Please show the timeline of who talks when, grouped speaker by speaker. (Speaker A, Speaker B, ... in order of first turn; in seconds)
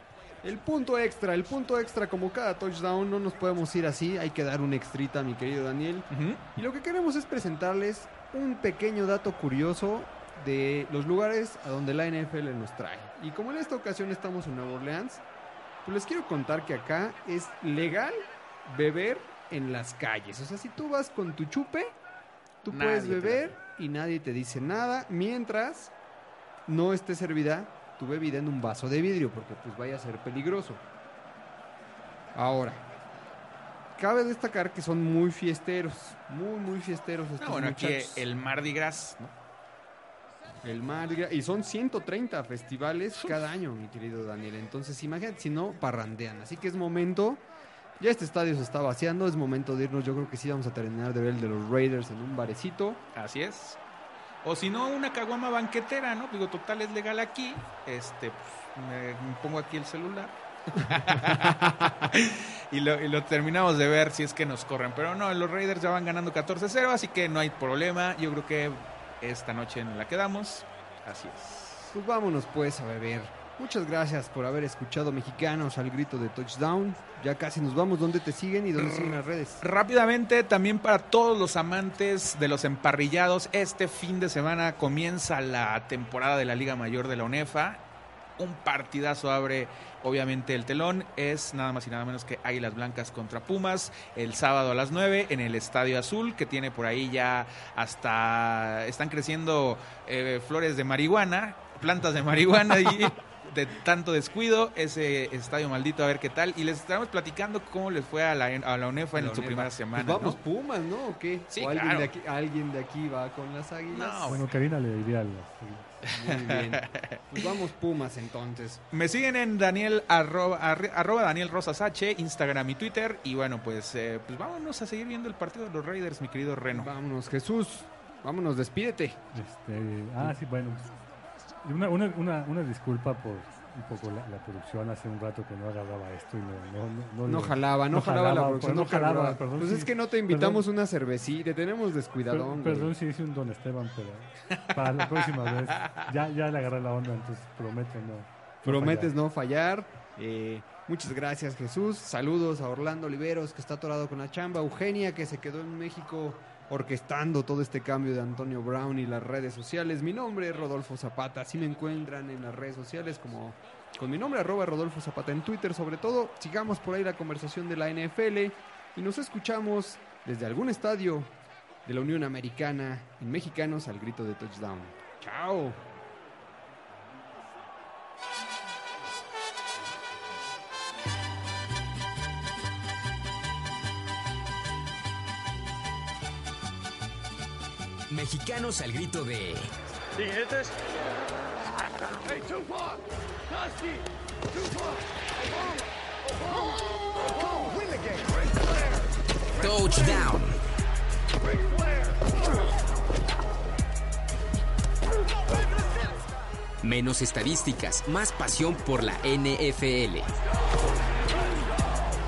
Speaker A: 0.4-15.2, 15.8-22.0, 22.6-25.9, 26.7-30.8, 32.4-32.8, 34.0-38.3, 40.6-47.5, 48.0-53.0, 61.2-61.9, 71.9-79.6, 109.2-114.4, 116.1-118.8, 126.7-129.2, 137.2-142.9, 148.6-171.3, 171.8-175.8
Speaker B: 6.1-6.4, 22.7-23.5, 37.4-39.3, 53.1-53.8, 54.4-71.9, 78.8-87.8, 88.4-110.4, 111.5-112.1, 113.9-114.5, 116.1-117.4, 118.9-126.9, 144.6-146.0
Speaker C: 114.3-116.0, 129.3-130.9, 131.6-140.6, 142.3-149.1
Speaker D: 188.1-189.7, 199.6-200.6, 206.8-210.3
Speaker E: 190.2-191.1, 192.2-194.0, 194.5-194.9, 196.4-199.0, 201.6-202.6, 205.5-206.1, 211.3-211.7